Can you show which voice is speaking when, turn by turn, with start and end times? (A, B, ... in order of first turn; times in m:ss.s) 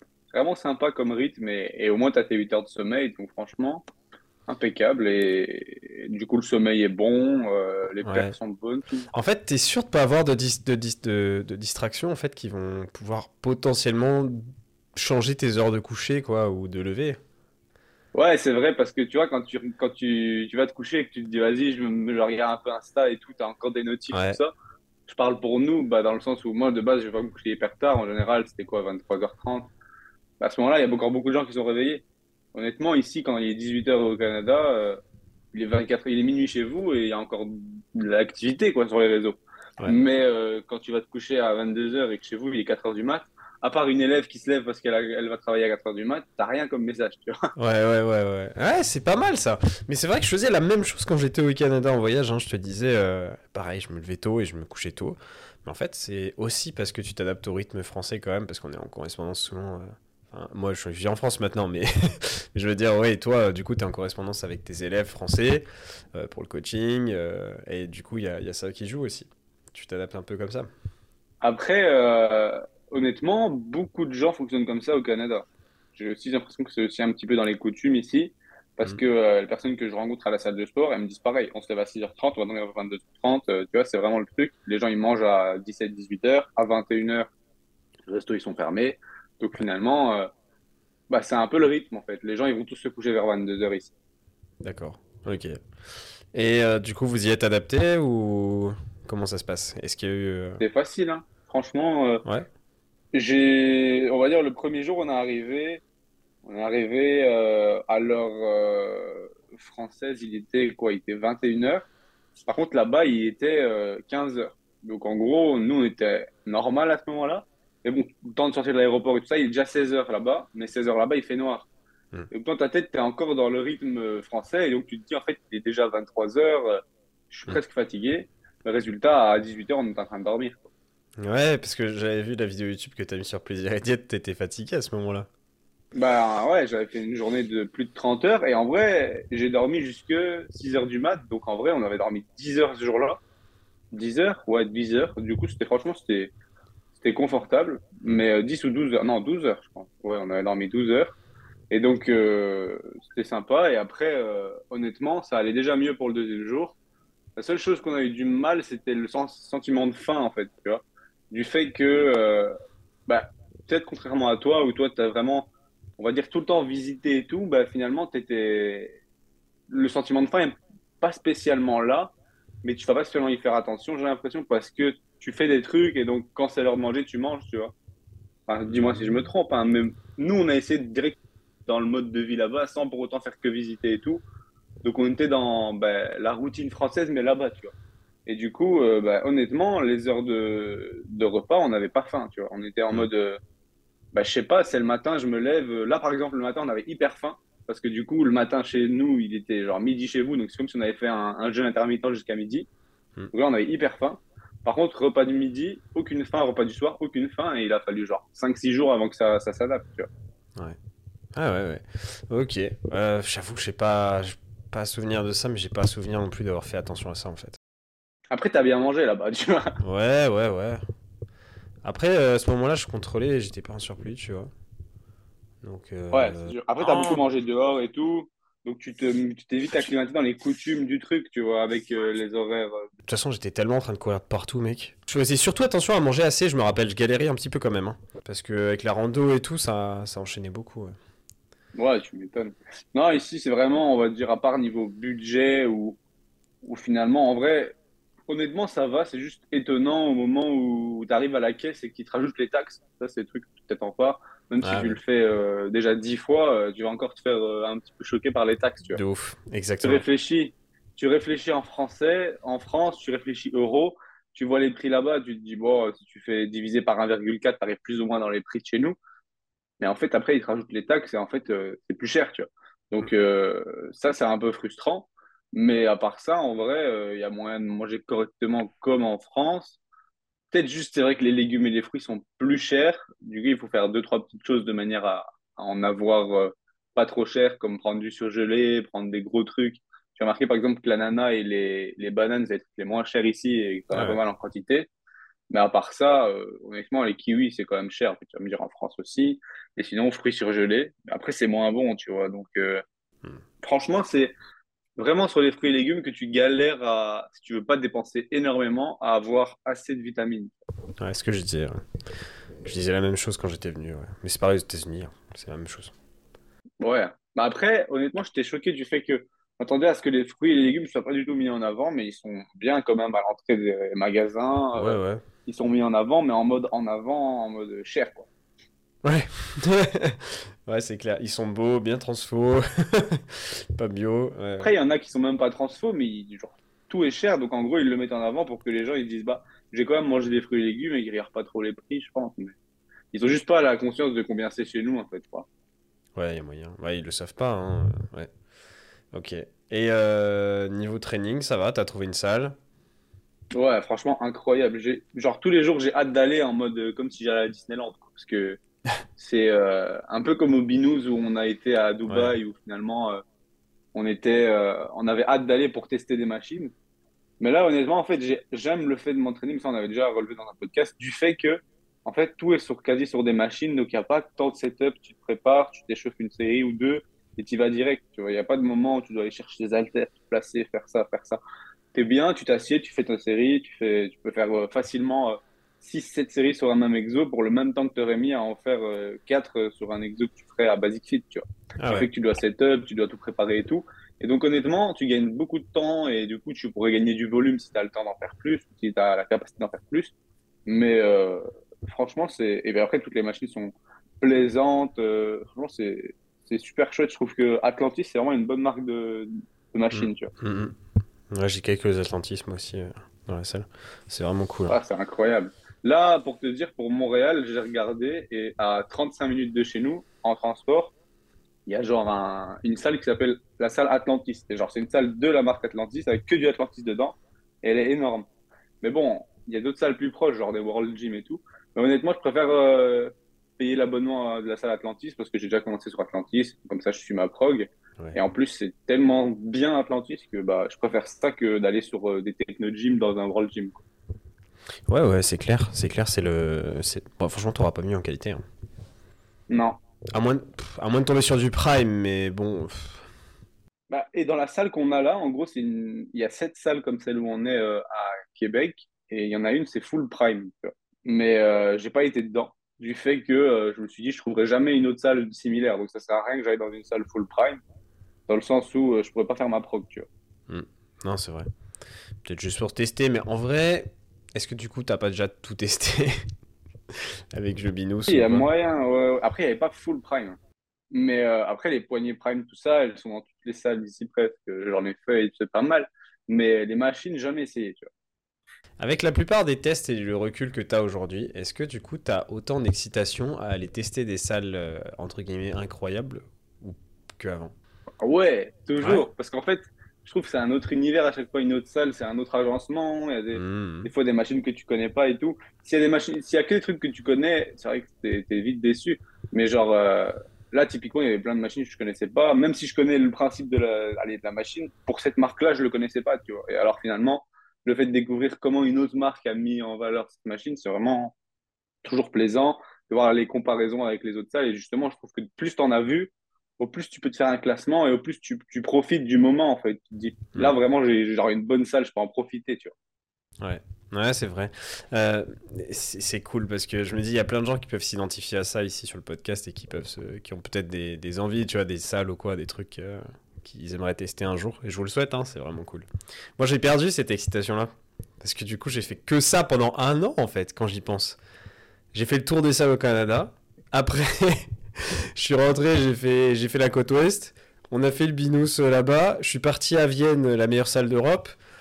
0:00.3-0:03.8 A
0:04.5-0:09.1 A
0:08.0-0:08.3 B
0:09.1-0:17.2 B
0:18.2-0:24.5 A
0:24.1-0:24.4 B
0:25.1-0:29.7 A
0:30.4-0:35.0 A
0:35.5-0:47.5 A
0:47.6-1:10.7 B
1:11.4-1:27.3 A
1:28.1-1:30.3 A
1:31.1-1:33.9 A
1:34.6-1:35.6 B
1:36.3-1:40.6 B
1:40.6-1:42.2 A
1:43.1-1:45.8 A
1:46.4-1:51.9 A
1:52.4-2:01.7 A
2:02.3-2:10.7 A
2:11.2-2:15.3 B
2:16.0-2:23.2 A
2:23.9-2:26.3 A
2:27.0-2:31.2 A
2:31.7-2:36.8 A
2:37.4-2:42.5 A
2:43.1-2:49.0 A
2:49.7-2:52.1 A
2:52.6-2:57.7 A
2:58.5-3:04.2 A
3:04.8-3:07.7 A
3:08.3-3:13.4 A
3:14.1-3:22.7 A
3:23.3-3:30.1 A
3:31.4-3:37.6 B
3:38.3-3:39.8 A
3:39.8-3:40.8 B
3:41.8-3:44.5 B
3:45.6-3:47.2 B
3:46.1-3:52.9 A
3:53.1-4:01.0 B
4:01.8-4:06.0 A
4:06.6-4:07.8 A
4:08.3-4:19.0 A
4:14.6-4:15.0 B
4:18.9-4:20.0 B
4:19.8-4:29.0 A
4:29.8-4:39.8 A
4:40.5-4:54.9 A
4:53.9-4:54.2 B
4:55.5-5:02.8 A
5:03.6-5:04.3 A
5:05.0-5:10.6 A
5:11.0-5:11.9 B
5:12.6-5:15.9 B
5:16.8-5:28.3 A
5:24.8-5:25.2 B
5:29.0-5:34.7 B
5:34.6-5:42.5 A
5:43.1-5:45.5 A
5:46.2-5:48.3 B
5:49.1-5:52.6 B
5:53.5-5:58.6 A
5:59.2-6:03.2 A
6:02.1-6:02.4 B
6:03.9-6:06.7 A
6:07.4-6:21.4 A
6:21.9-6:40.1 A
6:31.8-6:32.1 B
6:40.7-6:50.3 A
6:49.9-6:50.8 B
6:51.3-6:54.8 B
6:54.7-7:00.9 A
7:01.7-7:08.3 A
7:08.8-7:23.8 A
7:24.9-7:28.4 B
7:29.5-7:29.8 A
7:30.1-7:33.0 B
7:33.9-7:47.6 A
7:48.3-7:50.1 A
7:50.5-7:51.5 B
7:52.2-7:56.3 B
7:56.9-7:58.5 B
7:58.1-8:00.4 A
8:00.9-8:07.9 A
8:08.8-8:17.5 B
8:18.0-8:41.1 A
8:23.3-8:23.9 B
8:41.8-8:52.7 A
8:53.4-9:11.2 B
9:11.9-9:21.3 B